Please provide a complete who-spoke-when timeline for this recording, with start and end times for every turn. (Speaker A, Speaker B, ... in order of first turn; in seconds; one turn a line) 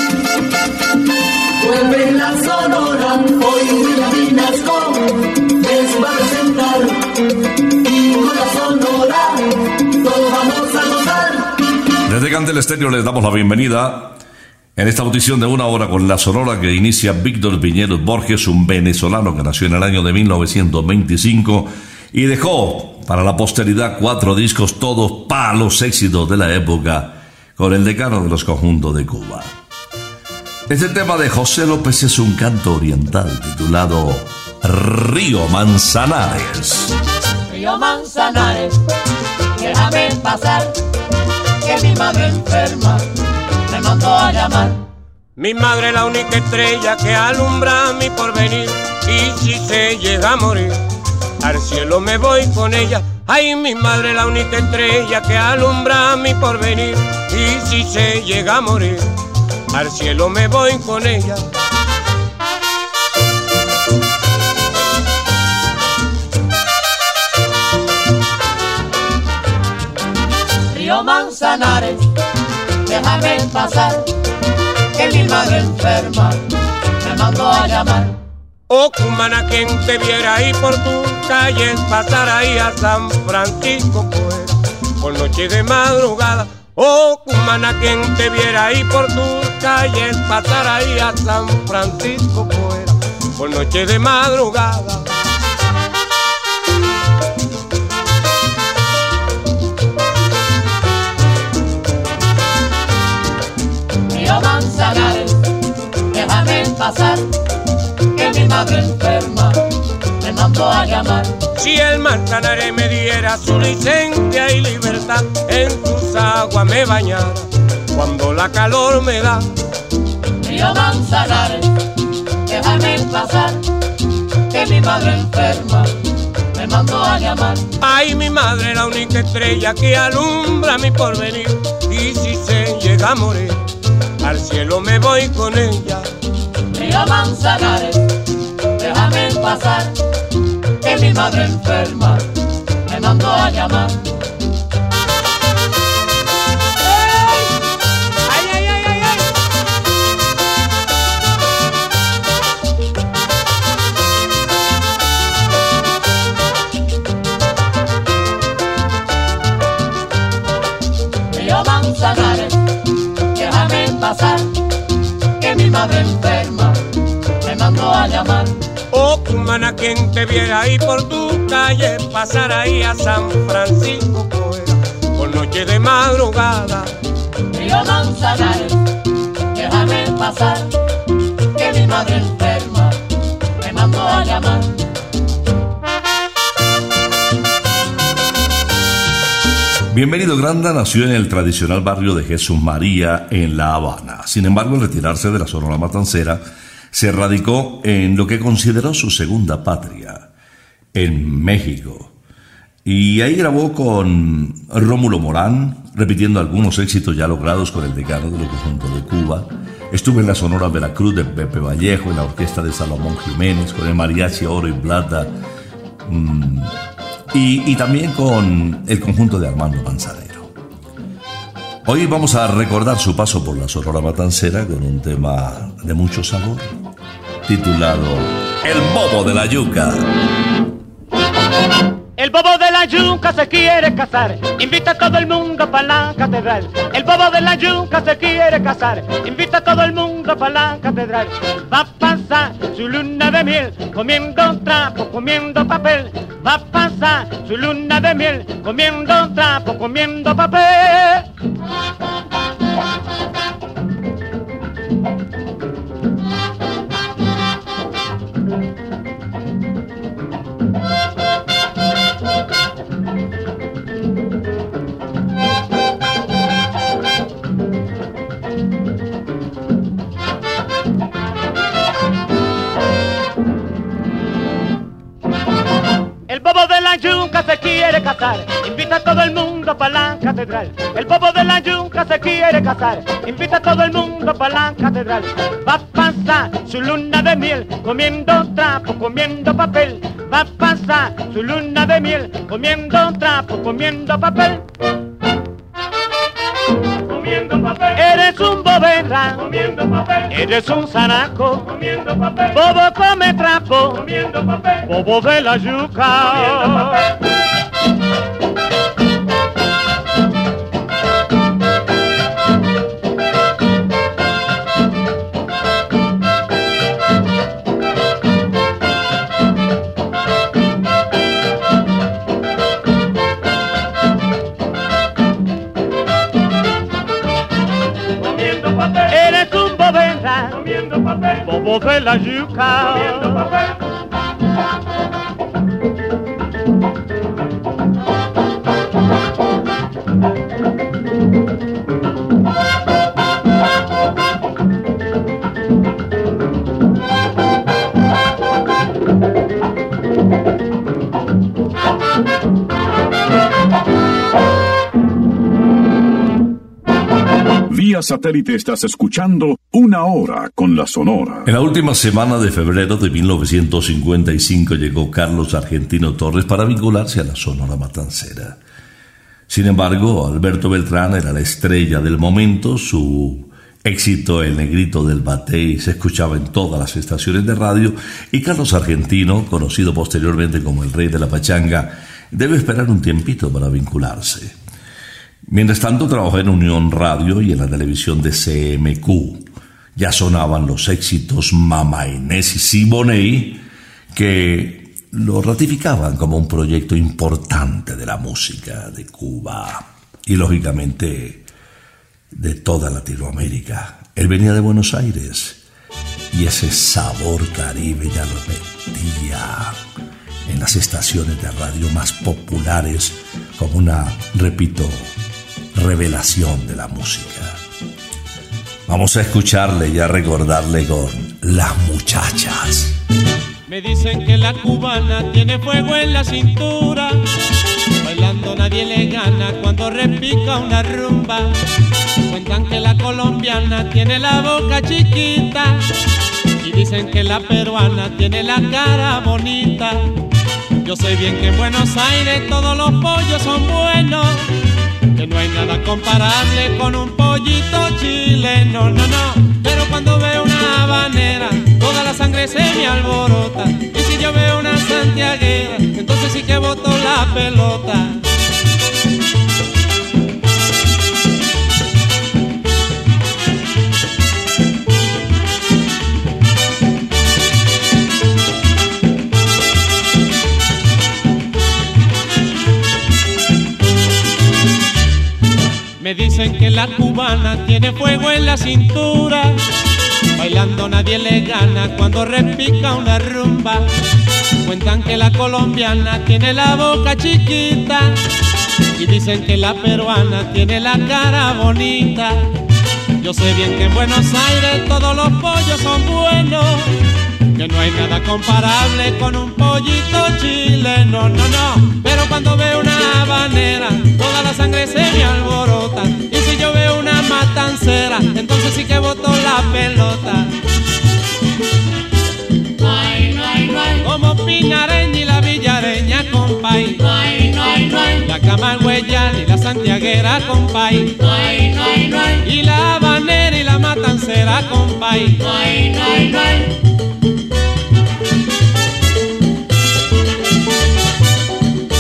Speaker A: 1.6-7.1
Speaker A: 7.8-11.5
Speaker B: 12.1-14.2
Speaker B: 14.8-29.5
Speaker B: 30.7-37.0
Speaker C: 37.5-38.8
Speaker C: 39.6-40.8
Speaker C: 41.6-43.1
Speaker C: 43.7-44.8
Speaker D: 45.4-50.8
Speaker D: 51.4-59.1
Speaker D: 59.7-61.5
Speaker C: 70.7-72.1
Speaker C: 72.9-74.1
Speaker C: 75.0-76.4
Speaker C: 77.0-78.2
Speaker D: 78.7-95.1
Speaker C: 104.1-105.4
Speaker C: 106.1-107.2
Speaker C: 108.1-109.6
Speaker C: 110.2-111.4
Speaker D: 111.6-119.5
Speaker C: 120.4-121.7
Speaker C: 122.5-123.6
Speaker C: 124.5-126.0
Speaker C: 126.5-127.7
Speaker D: 127.8-133.6
Speaker D: 134.2-136.1
Speaker C: 136.7-138.0
Speaker C: 138.8-139.9
Speaker C: 140.8-142.3
Speaker C: 142.9-144.0
Speaker C: 161.3-162.6
Speaker C: 163.3-164.5
Speaker C: 165.4-166.8
Speaker C: 167.4-168.6
Speaker D: 168.9-176.9
Speaker C: 177.5-178.8
Speaker C: 179.5-180.7
Speaker C: 181.6-183.0
Speaker C: 183.6-184.7
Speaker B: 189.9-200.3
Speaker B: 200.9-202.1
Speaker B: 202.8-215.3
Speaker B: 216.0-216.7
Speaker B: 217.3-220.5
Speaker B: 221.8-226.8
Speaker B: 227.4-230.1
Speaker E: 232.2-251.3
Speaker E: 276.3-294.6
Speaker E: 297.6-307.1
Speaker E: 328.9-333.5
Speaker F: 357.7-361.5
Speaker B: 361.4-368.6
Speaker B: 369.5-384.6
Speaker B: 385.5-401.4
Speaker B: 402.3-405.6
Speaker B: 406.3-409.8
Speaker B: 410.5-415.1
Speaker B: 415.8-417.6
Speaker B: 418.9-423.0
Speaker G: 423.7-427.2
Speaker G: 428.0-431.6
Speaker G: 432.3-435.9
Speaker G: 436.6-440.1
Speaker G: 440.8-444.5
Speaker G: 445.1-458.2
Speaker G: 476.0-479.6
Speaker G: 480.4-483.9
Speaker G: 484.6-488.2
Speaker G: 489.0-492.5
Speaker G: 493.2-496.9
Speaker G: 497.6-510.5
Speaker C: 512.8-514.1
Speaker G: 514.0-517.0
Speaker C: 517.0-518.3
Speaker G: 518.2-521.2
Speaker C: 521.2-522.5
Speaker G: 522.4-525.4
Speaker C: 525.4-526.8